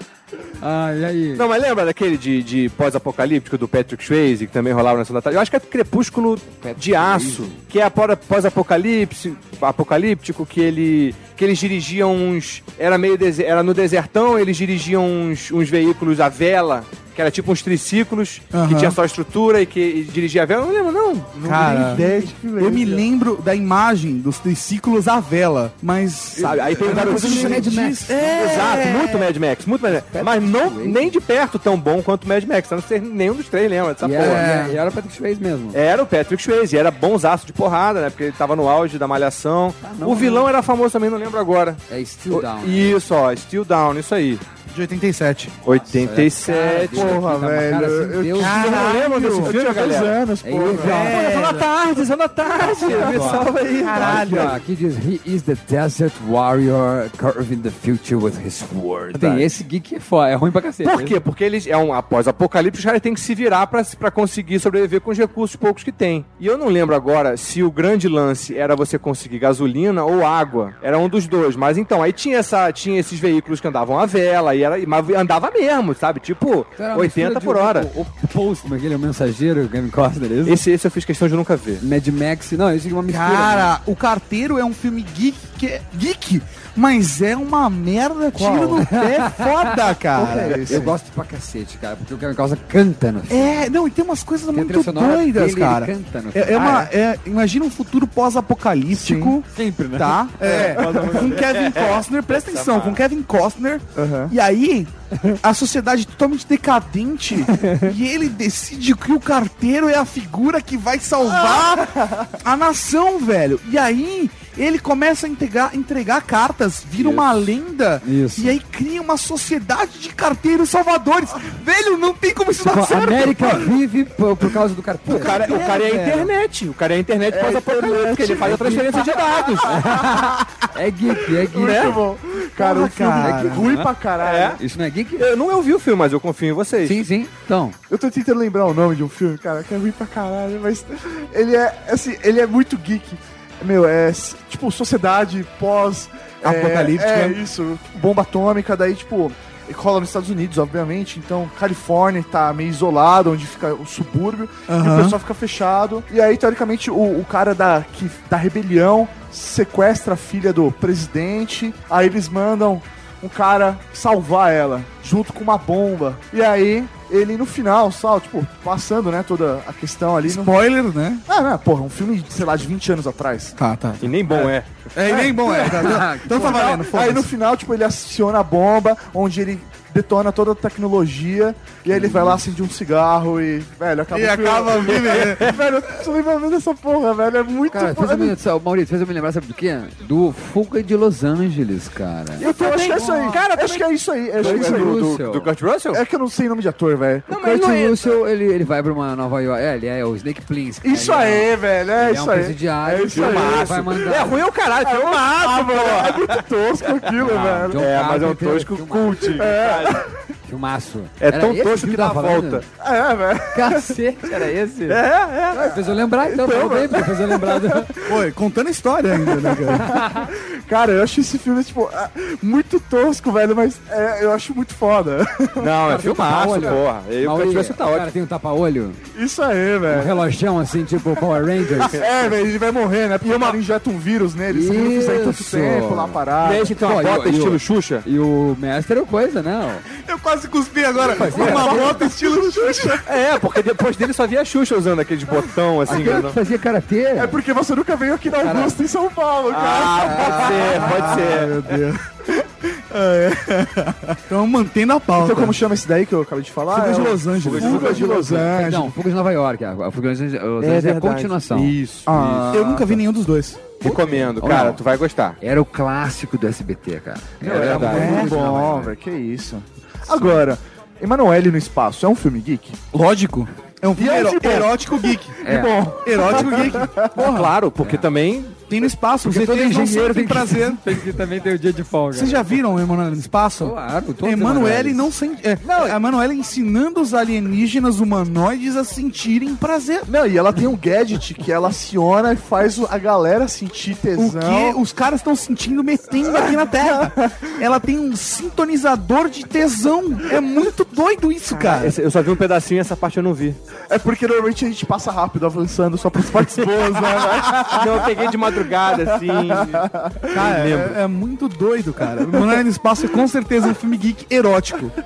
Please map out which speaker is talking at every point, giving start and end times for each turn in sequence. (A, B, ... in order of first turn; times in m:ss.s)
0:00.6-0:01.4 A
0:01.3-0:22.0 B
0:06.6-0:07.6 A
0:18.5-0:19.0 C
0:21.4-0:23.0 D
0:21.4-0:29.3 C
0:26.4-0:27.7 B
0:26.4-0:28.6 A
0:28.3-0:34.4 B
0:30.1-0:31.2 A
0:34.0-0:35.8 A
0:34.2-0:34.8 C
0:35.7-0:44.4 B
0:39.8-0:40.5 A
0:41.9-0:43.0 A
0:44.7-0:45.5 C
0:45.6-0:47.2 B
0:45.7-0:48.6 A
0:46.9-0:51.1 D
0:48.4-0:49.5 C
0:48.4-0:50.2 B
0:50.4-0:51.3 A
0:50.7-0:51.7 C
0:50.9-0:54.5 B
0:52.6-1:01.2 A
0:53.0-0:54.6 C
0:59.1-0:59.4 B
1:00.8-1:17.9 B
1:16.8-1:20.6 A
1:20.4-1:21.8 B
1:21.8-1:23.7 A
1:23.1-1:30.9 C
1:28.4-1:33.7 A
1:30.1-1:30.9 D
1:33.3-2:03.7 C
1:34.5-1:36.9 A
1:38.9-1:39.4 D
1:39.5-1:41.3 A
1:40.4-1:41.3 D
1:41.0-1:43.0 B
1:44.0-1:44.3 D
1:47.6-1:47.9 A
1:51.3-1:52.3 D
1:57.0-1:57.2 B
1:58.0-1:58.6 A
2:02.6-2:05.6 A
2:05.1-2:09.8 B
2:05.1-2:06.3 C
2:07.3-2:10.2 D
2:08.4-2:08.9 A
2:09.6-2:12.0 A
2:11.4-2:14.6 D
2:11.6-2:12.0 B
2:12.6-2:13.7 C
2:13.2-2:13.9 A
2:14.2-2:14.6 B
2:14.6-2:15.3 A
2:15.2-2:17.0 B
2:16.8-2:17.8 A
2:17.9-2:50.5 D
2:26.4-2:27.4 C
2:34.7-2:35.2 C
2:50.2-2:51.2 C
2:51.3-2:53.6 D
2:53.6-2:57.3 C
2:54.0-2:54.9 B
2:55.4-3:08.4 D
2:55.6-2:56.6 A
3:01.9-3:02.4 A
3:04.1-3:05.6 C
3:04.9-3:05.5 B
3:07.7-3:12.5 A
3:12.4-3:15.1 D
3:12.4-3:16.0 B
3:14.4-3:15.5 A
3:15.9-3:17.3 D
3:17.3-3:18.2 B
3:17.3-3:24.4 A
3:20.8-3:24.0 D
3:23.1-3:26.4 B
3:24.8-3:27.8 D
3:27.2-3:29.4 A
3:27.2-3:30.0 B
3:29.4-3:30.1 D
3:30.4-3:32.6 A
3:31.2-3:32.6 B
3:32.8-3:33.9 D
3:33.5-3:35.0 A
3:34.5-3:35.6 B
3:35.5-3:37.9 A
3:36.2-3:38.2 D
3:38.0-3:39.9 C
3:39.2-3:45.7 D
3:39.8-3:40.3 A
3:45.6-3:48.1 B
3:45.9-3:49.0 A
3:49.1-3:50.2 D
3:49.9-3:52.0 A
3:51.8-3:56.7 D
3:53.2-3:53.6 B
3:54.5-3:56.2 A
3:56.4-3:58.0 B
3:56.7-3:59.8 A
4:00.0-4:03.0 C
4:01.1-4:02.0 A
4:01.2-4:03.0 D
4:03.0-4:06.4 B
4:05.9-4:07.4 A
4:07.2-4:11.2 D
4:08.4-4:08.8 A
4:09.5-4:11.6 B
4:10.1-4:12.1 C
4:12.9-4:15.6 C
4:15.1-4:18.9 D
4:16.7-4:18.9 C
4:17.4-4:18.4 B
4:17.9-4:21.7 A
4:20.6-4:22.6 B
4:22.0-4:23.0 D
4:22.5-4:23.8 C
4:23.8-4:25.4 B
4:23.8-4:24.8 A
4:25.4-4:28.9 A
4:27.4-4:32.8 D
4:27.4-4:28.4 B
4:27.9-4:28.3 C
4:32.9-4:37.5 C
4:33.9-4:37.1 D
4:35.4-4:35.8 A
4:37.1-4:38.6 B
4:37.8-4:38.1 A
4:38.7-4:41.0 C
4:39.2-4:42.6 A
4:42.1-4:50.1 C
4:43.6-4:45.1 A
4:50.1-4:54.8 D
4:54.2-5:02.0 C
4:56.2-4:57.4 D
5:01.5-5:03.6 B
5:03.9-5:10.2 D
5:07.7-5:11.0 B
5:10.3-5:14.9 C
5:12.3-5:12.6 D